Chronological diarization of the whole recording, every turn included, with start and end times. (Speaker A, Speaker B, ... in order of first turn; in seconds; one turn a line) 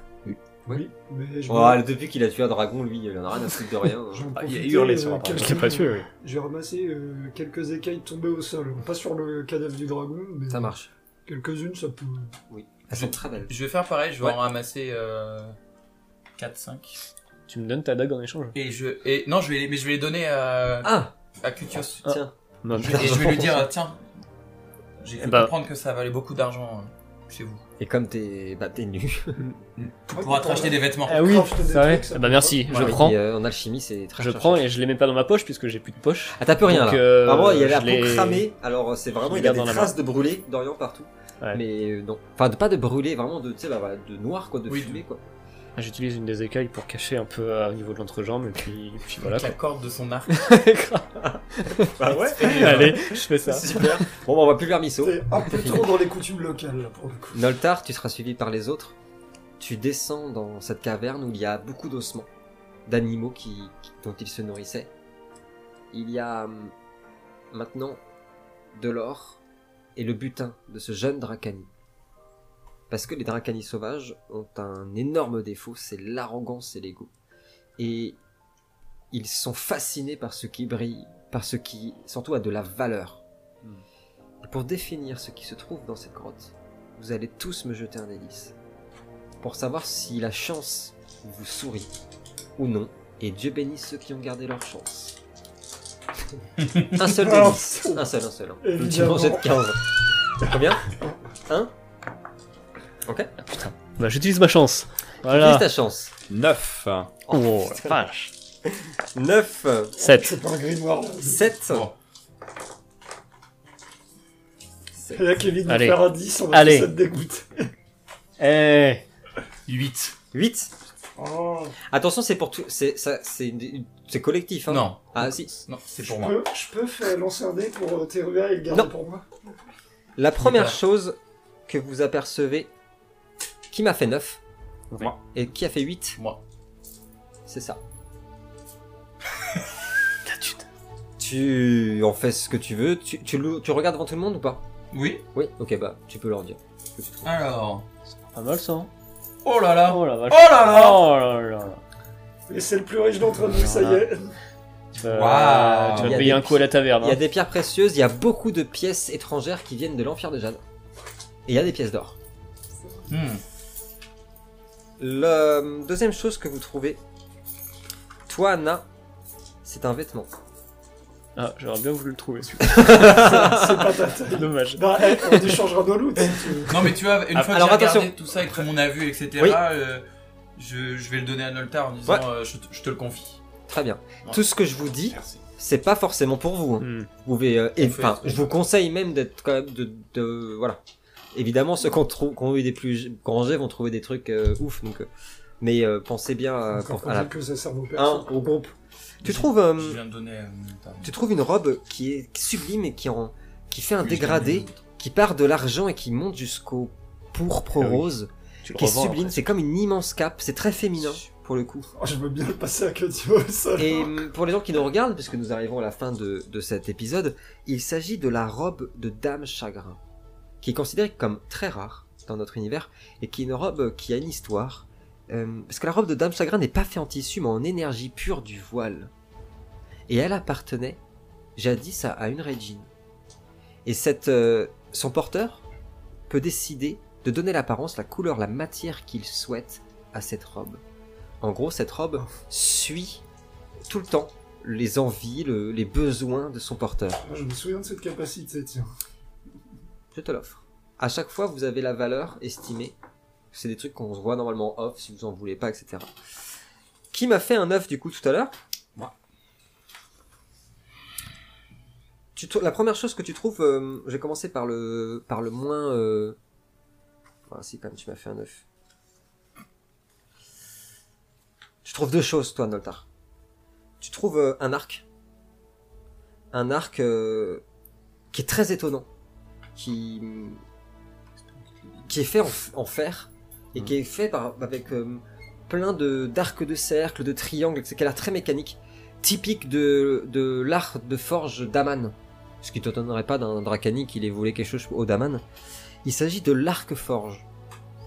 Speaker A: 0.7-1.8
Speaker B: 1.5-4.3
Speaker A: 4.1-10.7
Speaker C: 4.3-6.0
Speaker D: 5.3-6.1
Speaker B: 10.5-10.9
Speaker A: 11.3-12.3
Speaker B: 12.5-13.5
Speaker E: 12.9-15.6
Speaker E: 16.4-17.0
Speaker D: 17.5-18.6
Speaker E: 18.6-22.1
Speaker B: 20.8-21.1
Speaker B: 21.8-23.6
Speaker D: 22.1-23.6
Speaker E: 22.7-24.0
Speaker E: 25.0-27.6
Speaker D: 25.2-25.5
Speaker B: 27.8-29.4
Speaker E: 30.1-31.3
Speaker A: 30.1-32.7
Speaker D: 31.1-33.2
Speaker B: 32.7-34.6
Speaker D: 34.2-38.5
Speaker B: 36.4-45.2
Speaker D: 39.2-39.9
Speaker E: 44.7-45.0
Speaker D: 45.8-49.6
Speaker E: 49.2-50.4
Speaker D: 50.4-51.0
Speaker B: 50.5-55.9
Speaker D: 51.6-53.8
Speaker E: 52.0-53.1
Speaker A: 55.0-57.4
Speaker B: 57.3-59.0
Speaker B: 59.6-62.3
Speaker B: 62.9-64.9
Speaker B: 65.9-66.7
Speaker B: 67.5-68.0
Speaker B: 68.8-69.4
Speaker B: 70.0-71.7
Speaker B: 72.9-77.1
Speaker B: 77.8-78.2
Speaker B: 79.1-83.2
Speaker B: 84.4-88.5
Speaker B: 89.4-91.9
Speaker B: 92.6-95.2
Speaker E: 96.6-96.9
Speaker B: 96.9-99.8
Speaker A: 97.0-98.0
Speaker A: 98.6-99.6
Speaker B: 100.4-100.9
Speaker B: 101.5-101.7
Speaker B: 103.1-103.3
Speaker D: 103.5-105.7
Speaker B: 105.3-106.1
Speaker C: 106.3-107.2
Speaker B: 107.3-108.1
Speaker D: 107.3-108.3
Speaker B: 108.7-110.1
Speaker D: 110.0-110.3
Speaker A: 110.1-111.4
Speaker B: 111.2-111.9
Speaker E: 111.7-111.9
Speaker B: 115.0-115.2
Speaker A: 115.1-117.7
Speaker D: 115.7-116.9
Speaker D: 118.4-119.0
Speaker E: 119.7-120.2
Speaker B: 120.3-120.7
Speaker A: 121.2-121.8
Speaker B: 121.9-125.5
Speaker E: 124.7-126.4
Speaker A: 126.0-129.2
Speaker B: 130.2-131.2
Speaker E: 130.4-130.8
Speaker B: 131.7-132.7
Speaker B: 133.7-134.4
Speaker B: 135.0-136.2
Speaker B: 137.5-137.8
Speaker D: 140.3-140.7
Speaker B: 141.2-144.6
Speaker E: 144.9-145.2
Speaker B: 145.3-147.3
Speaker E: 147.2-147.8
Speaker D: 148.3-148.9
Speaker E: 149.4-151.0
Speaker D: 149.9-151.8
Speaker A: 152.5-154.3
Speaker D: 153.6-154.0
Speaker C: 155.0-156.2
Speaker D: 155.0-157.2
Speaker B: 155.9-160.6
Speaker B: 161.5-162.2
Speaker E: 163.1-163.4
Speaker B: 165.0-167.0
Speaker B: 168.3-168.8
Speaker B: 169.6-170.3
Speaker D: 171.4-173.3
Speaker B: 172.6-173.9
Speaker A: 172.9-176.8
Speaker D: 174.3-175.6
Speaker E: 176.7-180.0
Speaker B: 177.3-178.1
Speaker E: 180.6-183.4
Speaker B: 183.7-190.8
Speaker C: 185.1-185.4
Speaker D: 186.8-187.1
Speaker E: 187.8-188.6
Speaker B: 191.3-195.1
Speaker B: 195.6-197.3
Speaker A: 196.7-198.3
Speaker B: 197.9-200.0
Speaker E: 199.2-201.1
Speaker B: 201.0-211.9
Speaker E: 204.1-204.7
Speaker D: 207.8-208.1
Speaker D: 208.7-209.5
Speaker A: 212.0-214.2
Speaker B: 213.8-220.0
Speaker B: 220.6-229.1
Speaker B: 230.1-231.0
Speaker B: 231.6-232.9
Speaker B: 233.8-235.6
Speaker B: 236.3-240.8
Speaker B: 241.4-243.2
Speaker B: 243.9-247.2
Speaker A: 247.2-248.9
Speaker B: 250.1-252.9
Speaker B: 253.5-256.1
Speaker B: 257.1-259.1
Speaker B: 262.4-266.4
Speaker B: 267.5-268.6
Speaker B: 271.8-273.1
Speaker B: 274.0-275.0
Speaker B: 276.5-277.6
Speaker B: 278.3-279.1
Speaker B: 279.8-280.6
Speaker B: 282.1-295.4
Speaker B: 296.0-297.4